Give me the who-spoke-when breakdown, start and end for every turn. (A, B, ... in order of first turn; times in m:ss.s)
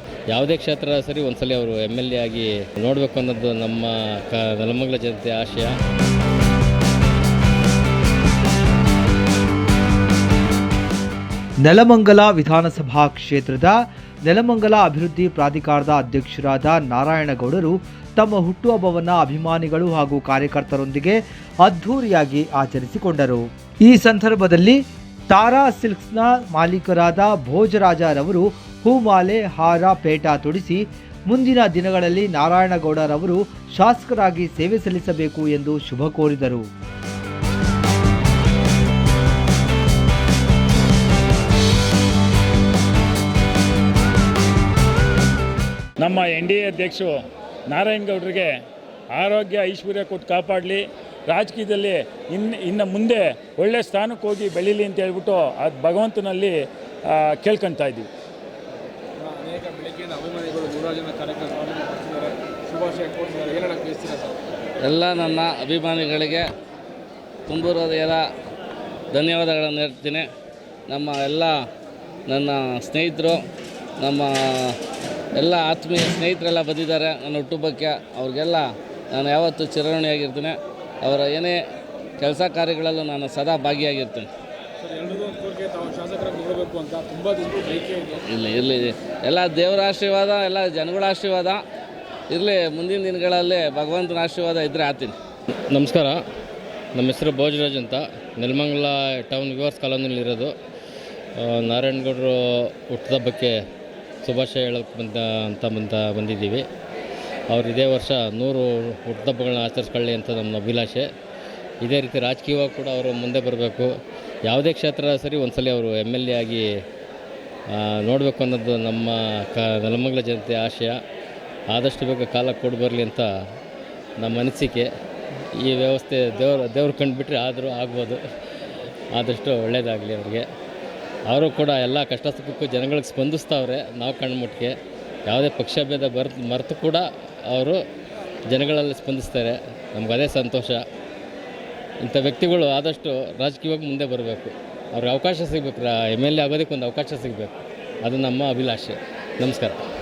0:00.3-0:05.7 A
0:11.6-0:36.7 B
0:46.0-0:47.1 C
0:47.7-0:48.6 C
0:49.1-0:56.6 C
0:57.1-0:58.1 C
0:59.2-1:04.4 D
1:04.8-1:06.5 E
1:07.5-1:08.3 E
1:09.1-1:10.3 E
1:10.9-1:11.6 E
1:12.3-1:13.4 E
1:14.0-1:14.8 E
1:15.4-1:21.6 E
1:22.2-1:24.3 E
1:24.8-1:28.2 D
1:28.2-1:31.6 E
1:32.3-1:35.2 E
1:35.7-1:36.2 A
1:37.0-1:40.5 A
1:41.4-1:43.6 A
1:44.2-1:46.6 A
1:47.5-1:51.1 A
1:51.8-1:53.9 A
1:54.5-1:56.7 A
1:57.7-2:01.0 A
2:01.7-2:03.3 A
2:04.2-2:04.9 A
2:05.6-2:10.5 A
2:11.3-2:14.7 A
2:15.3-2:17.8 A
2:18.5-2:20.8 A
2:22.0-2:29.8 A